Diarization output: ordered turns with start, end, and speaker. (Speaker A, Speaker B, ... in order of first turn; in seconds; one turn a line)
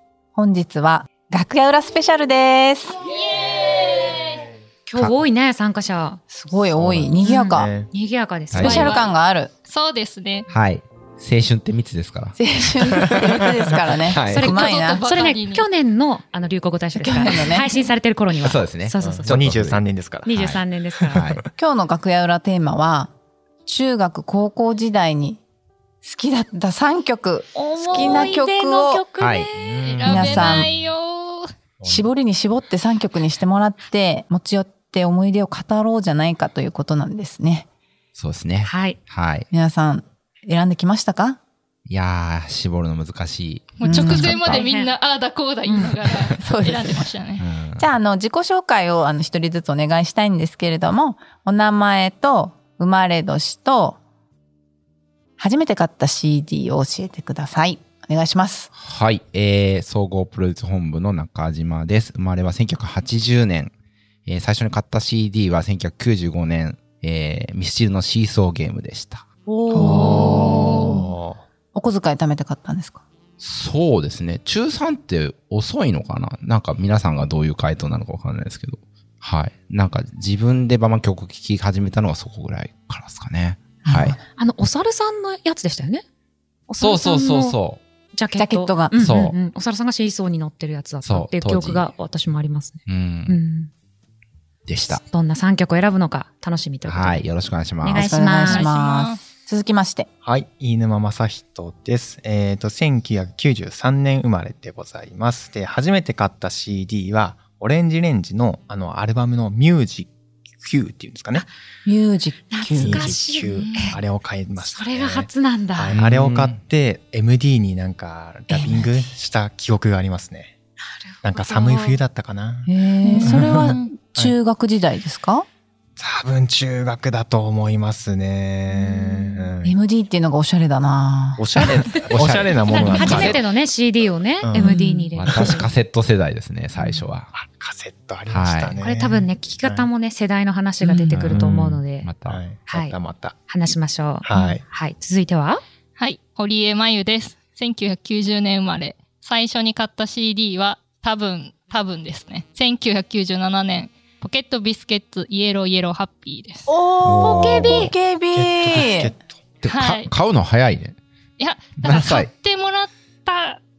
Speaker A: 0.3-3.0
Speaker B: 3.0-4.4
Speaker C: 4.9-6.2
Speaker A: 6.3-7.7
Speaker D: 6.8-7.9
Speaker C: 7.2-8.9
Speaker E: 8.5-8.8
Speaker A: 8.6-9.5
Speaker B: 8.6-9.1
Speaker B: 9.7-10.5
Speaker E: 10.5-13.5
Speaker A: 12.4-15.0
Speaker E: 14.0-14.6
Speaker C: 14.3-19.6
Speaker B: 14.5-15.7
Speaker A: 17.0-17.7
Speaker E: 18.4-19.8
Speaker D: 19.0-20.3
Speaker C: 20.2-21.3
Speaker E: 20.3-21.4
Speaker D: 21.0-21.3
Speaker A: 21.6-23.1
Speaker A: 23.7-25.4
Speaker A: 26.0-29.0
Speaker C: 27.6-29.9
Speaker E: 29.2-29.5
Speaker D: 29.6-30.5
Speaker B: 29.8-31.5
Speaker A: 30.0-30.7
Speaker D: 31.8-32.1
Speaker A: 31.8-37.7
Speaker E: 38.2-39.5
Speaker C: 38.6-39.0
Speaker A: 39.5-41.4
Speaker E: 41.9-44.6
Speaker B: 43.8-47.5
Speaker A: 43.8-44.3
Speaker C: 44.1-44.9
Speaker C: 45.6-45.9
Speaker A: 46.4-47.1
Speaker E: 47.4-47.9
Speaker A: 47.8-54.0
Speaker A: 55.4-58.7
Speaker E: 58.8-63.7
Speaker E: 64.3-69.3
Speaker A: 69.5-71.1
Speaker D: 69.7-71.4
Speaker B: 69.8-71.0
Speaker A: 71.7-73.0
Speaker E: 73.4-84.2
Speaker A: 83.8-84.2
Speaker C: 84.3-86.0
Speaker C: 86.7-87.6
Speaker E: 86.8-87.8
Speaker C: 88.1-93.7
Speaker A: 88.4-89.1
Speaker E: 89.0-89.4
Speaker E: 91.0-91.9
Speaker E: 92.9-93.4
Speaker E: 94.7-95.0
Speaker C: 94.9-97.3
Speaker E: 96.8-98.2
Speaker C: 97.8-98.7
Speaker A: 98.0-100.1
Speaker B: 98.4-99.2
Speaker D: 100.2-111.5
Speaker A: 111.9-113.2
Speaker C: 112.5-114.0
Speaker D: 112.7-120.5
Speaker C: 114.6-116.0
Speaker E: 115.9-116.6
Speaker A: 118.5-119.1
Speaker C: 121.0-122.0
Speaker D: 121.2-124.3
Speaker A: 122.7-125.5
Speaker C: 123.0-123.3
Speaker B: 123.6-123.9
Speaker D: 126.0-129.8
Speaker C: 128.8-129.5
Speaker A: 129.6-131.8
Speaker D: 131.4-133.4
Speaker E: 132.1-133.4
Speaker C: 132.7-135.7
Speaker D: 134.4-134.8
Speaker A: 134.6-135.1
Speaker E: 135.1-137.3
Speaker D: 135.3-135.6
Speaker D: 136.8-139.9
Speaker E: 138.3-138.8
Speaker C: 138.8-142.1
Speaker A: 140.8-141.4
Speaker E: 141.1-142.4
Speaker D: 142.3-143.3
Speaker C: 142.7-143.0
Speaker C: 143.5-145.6
Speaker D: 144.2-144.6
Speaker B: 146.0-156.7
Speaker A: 156.7-159.1
Speaker E: 157.0-157.9
Speaker C: 157.2-157.9
Speaker D: 158.3-159.4
Speaker E: 159.6-161.0
Speaker B: 159.7-160.1
Speaker B: 161.4-163.6
Speaker E: 161.8-162.3